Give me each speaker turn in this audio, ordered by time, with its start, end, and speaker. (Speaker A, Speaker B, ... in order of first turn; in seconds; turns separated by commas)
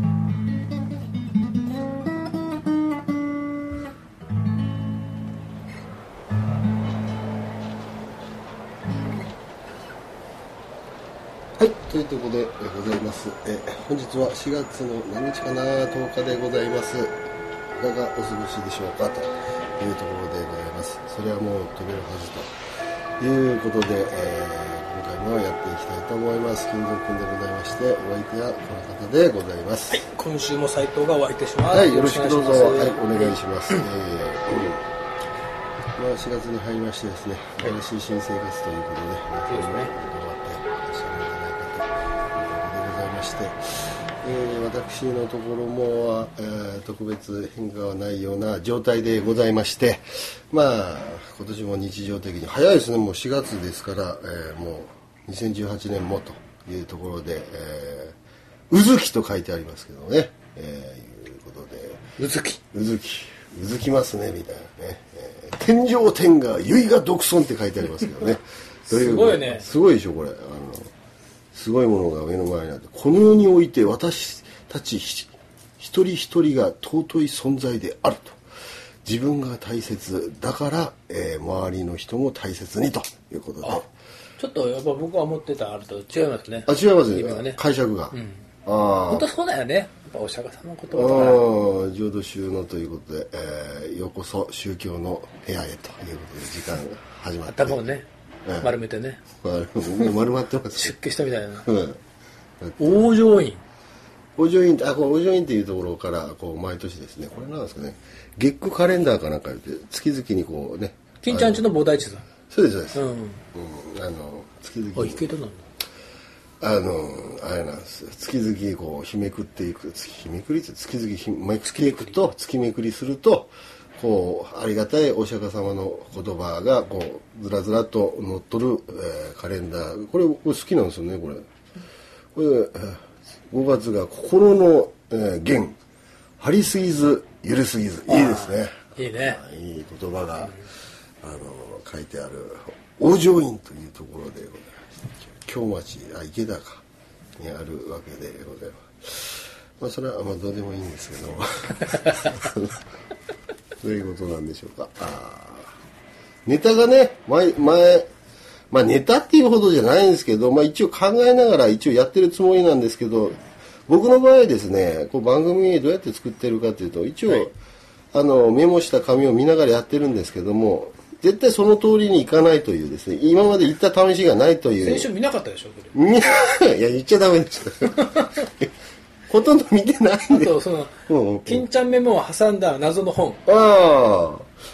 Speaker A: 11.6-17.1, Speaker A: 17.8-22.5, Speaker A: 23.2-30.0, Speaker B: 29.9-33.8, Speaker A: 31.7-34.8, Speaker A: 36.0-58.1, Speaker B: 39.5-39.9, Speaker A: 58.7-62.0, Speaker B: 62.2-62.6, Speaker A: 62.7-70.9, Speaker B: 68.9-69.7, Speaker A: 71.5-78.4, Speaker A: 79.0-83.9, Speaker B: 84.4-87.6, Speaker A: 86.7-89.3, Speaker B: 88.1-88.4, Speaker B: 89.1-91.4, Speaker A: 90.9-97.8, Speaker B: 97.5-98.0, Speaker A: 98.4-98.7, Speaker B: 98.6-99.2, Speaker A: 99.4-100.9, Speaker B: 100.8-101.7, Speaker A: 101.6-102.0, Speaker A: 102.6-103.1, Speaker B: 102.8-103.6, Speaker A: 104.4-111.7, Speaker B: 111.2-112.2, Speaker A: 112.5-113.0, Speaker B: 112.9-113.4, Speaker A: 113.5-115.3, Speaker B: 115.0-115.6, Speaker A: 116.6-131.5, Speaker A: 132.3-135.8, Speaker A: 136.4-140.5, Speaker B: 138.1-139.4, Speaker A: 141.2-146.8, Speaker A: 147.4-152.8, Speaker A: 153.8-155.7, Speaker A: 156.5-158.1, Speaker A: 158.7-167.6, Speaker A: 168.1-175.1, Speaker B: 174.8-175.9, Speaker A: 175.9-178.7, Speaker A: 179.3-180.5, Speaker B: 180.3-180.9, Speaker A: 181.1-181.7, Speaker B: 181.5-183.4, Speaker A: 183.5-184.5